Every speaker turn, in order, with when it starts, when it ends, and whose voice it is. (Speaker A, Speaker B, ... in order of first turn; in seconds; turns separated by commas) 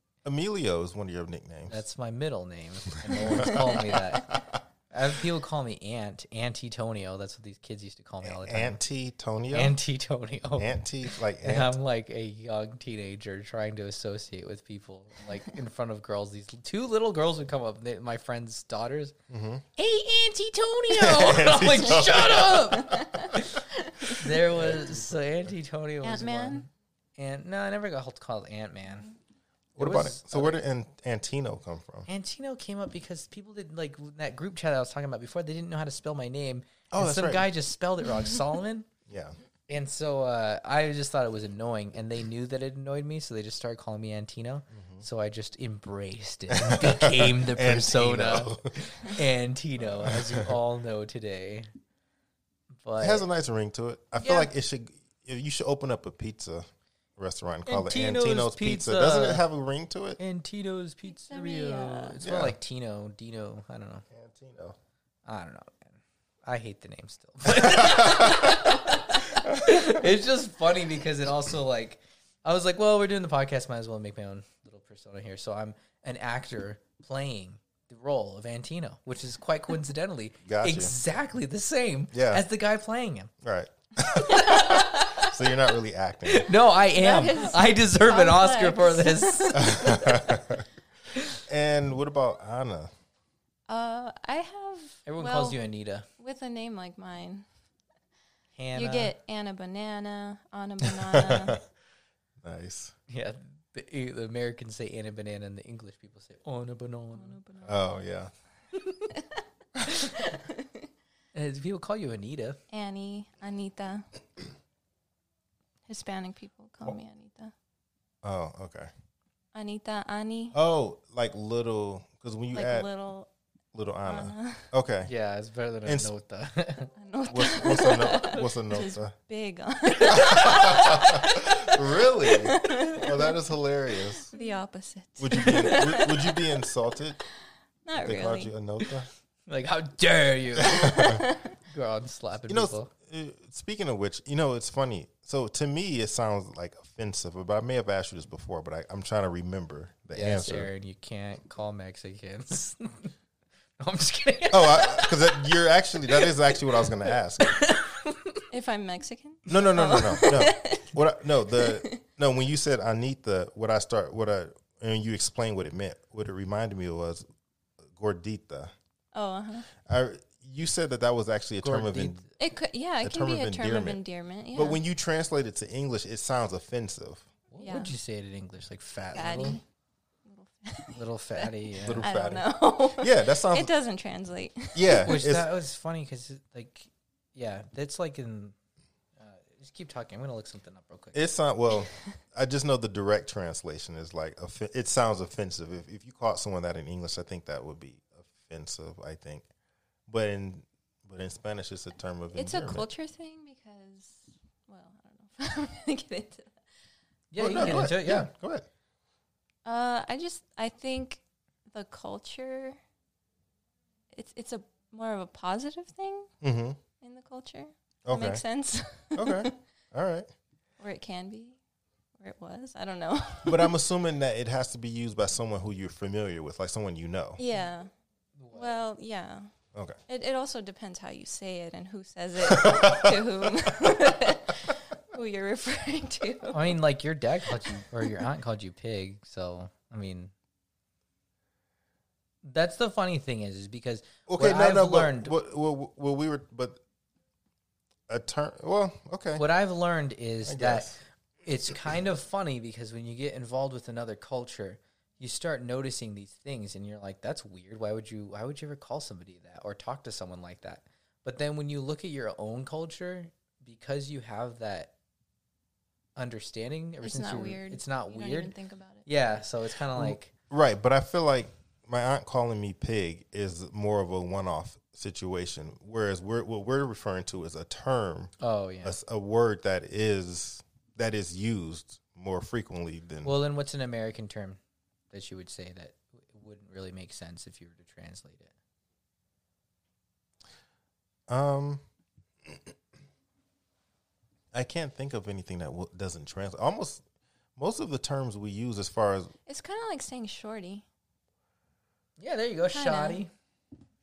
Speaker A: 0.2-1.8, Speaker B: 1.7-8.8, Speaker A: 3.1-4.4, Speaker A: 8.2-9.8, Speaker B: 9.5-19.1, Speaker A: 10.6-11.8, Speaker A: 19.3-19.6, Speaker B: 19.8-23.6, Speaker A: 20.9-23.3, Speaker C: 22.8-24.3, Speaker B: 24.1-29.1, Speaker A: 24.5-25.1, Speaker C: 26.0-26.7, Speaker A: 29.8-32.1, Speaker B: 29.8-30.6, Speaker B: 32.1-38.9, Speaker A: 36.9-37.5, Speaker A: 39.1-39.4, Speaker B: 39.7-51.7, Speaker A: 44.7-45.0, Speaker A: 46.5-49.2, Speaker A: 50.0-50.4, Speaker B: 52.8-53.3, Speaker A: 53.0-56.7, Speaker B: 54.2-54.5, Speaker A: 57.2-60.2, Speaker B: 57.7-59.4, Speaker B: 60.2-64.1, Speaker C: 61.1-62.2, Speaker A: 62.2-62.6, Speaker A: 64.1-64.8, Speaker B: 65.3-83.3, Speaker A: 67.5-68.7, Speaker A: 69.4-70.0, Speaker A: 80.5-81.0, Speaker A: 82.1-82.4, Speaker A: 83.4-86.5, Speaker B: 84.3-85.3, Speaker B: 86.3-90.0, Speaker C: 86.9-90.3, Speaker A: 89.6-90.6, Speaker A: 91.5-92.9, Speaker C: 93.7-95.6, Speaker B: 95.1-96.1, Speaker C: 96.2-97.5, Speaker B: 98.6-99.2, Speaker C: 98.7-101.6, Speaker A: 100.9-101.6, Speaker A: 102.4-102.9, Speaker B: 103.1-107.4, Speaker C: 107.1-108.1, Speaker A: 107.6-108.3, Speaker B: 109.9-110.3, Speaker C: 110.2-110.6, Speaker B: 111.3-112.6, Speaker C: 112.7-114.0, Speaker C: 115.9-117.5, Speaker A: 118.2-118.9, Speaker C: 119.5-120.5, Speaker A: 120.5-122.9, Speaker C: 122.5-123.3, Speaker A: 123.7-125.1, Speaker C: 124.0-124.7, Speaker B: 125.0-126.9, Speaker A: 125.8-126.1, Speaker C: 127.0-131.4, Speaker A: 127.3-129.1, Speaker B: 130.0-131.0, Speaker A: 130.1-134.3, Speaker C: 132.3-133.4, Speaker C: 134.3-136.5, Speaker A: 135.2-137.2, Speaker B: 135.3-135.6, Speaker C: 137.8-138.5, Speaker A: 137.9-139.1, Speaker B: 139.5-142.9, Speaker A: 140.6-141.2, Speaker C: 140.7-141.4, Speaker A: 142.5-150.7, Speaker B: 150.1-153.1, Speaker B: 153.8-155.5, Speaker A: 154.5-157.6, Speaker B: 156.1-158.4, Speaker C: 158.5-161.0, Speaker A: 159.5-167.2, Speaker C: 161.5-162.0, Speaker A: 167.9-168.7, Speaker C: 169.1-169.7, Speaker A: 169.8-172.2, Speaker B: 171.6-172.3, Speaker C: 172.4-174.8, Speaker A: 173.0-174.0, Speaker A: 174.5-177.3, Speaker B: 177.5-179.6, Speaker C: 177.6-177.9, Speaker C: 179.1-179.6, Speaker C: 180.2-185.1, Speaker B: 180.9-182.1, Speaker A: 181.8-183.7, Speaker A: 184.8-185.5, Speaker B: 185.0-188.5, Speaker B: 189.2-191.2, Speaker A: 191.1-199.5, Speaker A: 200.1-202.9, Speaker C: 202.3-206.5, Speaker B: 207.3-208.3, Speaker A: 207.4-208.7, Speaker C: 207.4-207.8, Speaker C: 209.7-212.8, Speaker C: 214.1-216.3, Speaker A: 216.4-216.8, Speaker C: 217.0-219.6, Speaker A: 218.1-218.5, Speaker A: 219.2-220.3, Speaker C: 220.8-221.6, Speaker C: 222.2-223.7, Speaker A: 223.4-227.4, Speaker C: 227.4-227.9, Speaker B: 228.4-228.8, Speaker C: 228.5-229.5, Speaker C: 230.1-236.8, Speaker A: 232.4-233.9, Speaker B: 236.5-240.3, Speaker B: 242.4-245.3, Speaker A: 244.3-246.8, Speaker A: 248.1-249.4, Speaker B: 249.4-264.9, Speaker A: 250.5-250.9, Speaker B: 266.2-268.5, Speaker C: 267.0-269.1, Speaker B: 269.1-270.3, Speaker A: 269.9-278.3, Speaker B: 278.4-279.0, Speaker A: 278.8-283.4, Speaker B: 283.2-284.6, Speaker B: 285.1-288.5, Speaker A: 291.3-291.8, Speaker A: 294.5-297.0, Speaker A: 297.6-299.3, Speaker C: 299.5-300.9, Speaker B: 302.2-303.3, Speaker C: 302.7-303.3